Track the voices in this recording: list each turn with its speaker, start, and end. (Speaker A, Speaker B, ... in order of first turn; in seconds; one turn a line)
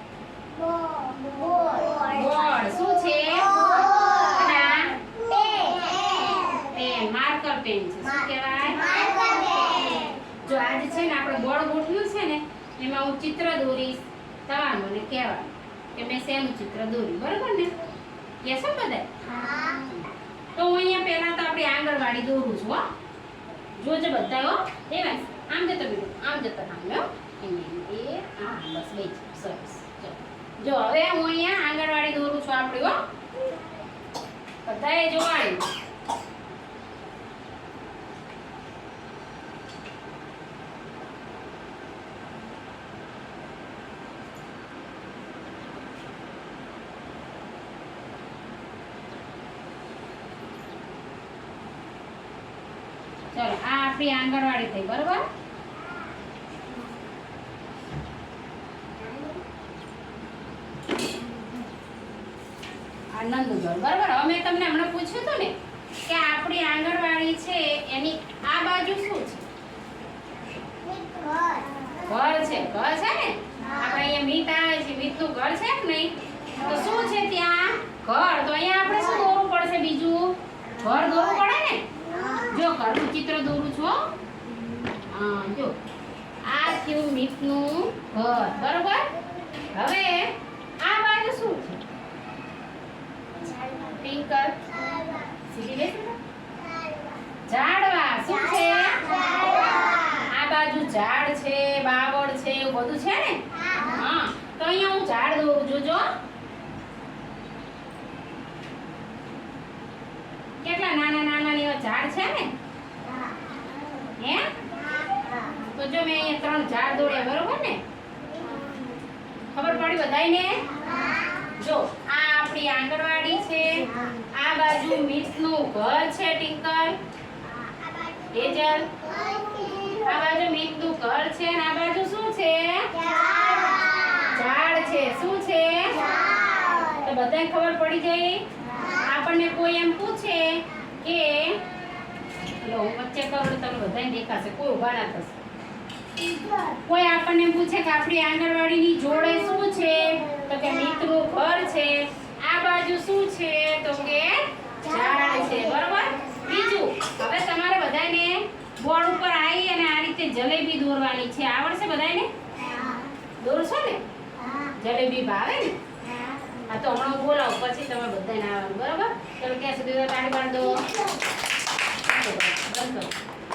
Speaker A: 0.7-2.1
Speaker B: 1.9-5.0
Speaker A: 3.9-4.2
Speaker A: 5.1-6.5
Speaker B: 6.5-9.1
Speaker A: 8.9-10.2
Speaker B: 9.9-17.8
Speaker B: 18.4-19.3
Speaker A: 19.4-19.9
Speaker B: 20.6-22.9
Speaker B: 23.8-33.0
Speaker B: 34.6-35.7
Speaker B: 53.3-55.3
Speaker B: 63.1-69.5
Speaker A: 70.8-72.0
Speaker B: 72.0-84.1
Speaker A: 82.1-82.4
Speaker B: 85.1-85.8
Speaker B: 86.4-89.1
Speaker B: 89.7-91.8
Speaker B: 93.5-96.2
Speaker A: 94.8-95.2
Speaker A: 96.7-97.2
Speaker B: 97.5-99.6
Speaker A: 99.0-100.2
Speaker B: 100.1-106.1
Speaker B: 110.6-112.5
Speaker B: 114.2-114.5
Speaker A: 115.1-115.5
Speaker B: 115.5-117.8
Speaker A: 118.4-118.9
Speaker B: 119.5-127.0
Speaker A: 120.8-121.4
Speaker A: 127.6-128.3
Speaker B: 128.3-129.1
Speaker A: 128.9-130.1
Speaker B: 129.9-133.1
Speaker A: 133.0-134.3
Speaker B: 134.2-136.2
Speaker A: 136.1-137.0
Speaker B: 136.8-141.7
Speaker B: 142.6-145.4
Speaker A: 146.3-146.8
Speaker B: 146.8-162.3
Speaker A: 162.7-163.1
Speaker B: 163.4-164.0
Speaker B: 164.7-165.8
Speaker B: 166.7-170.9
Speaker B: 172.1-173.2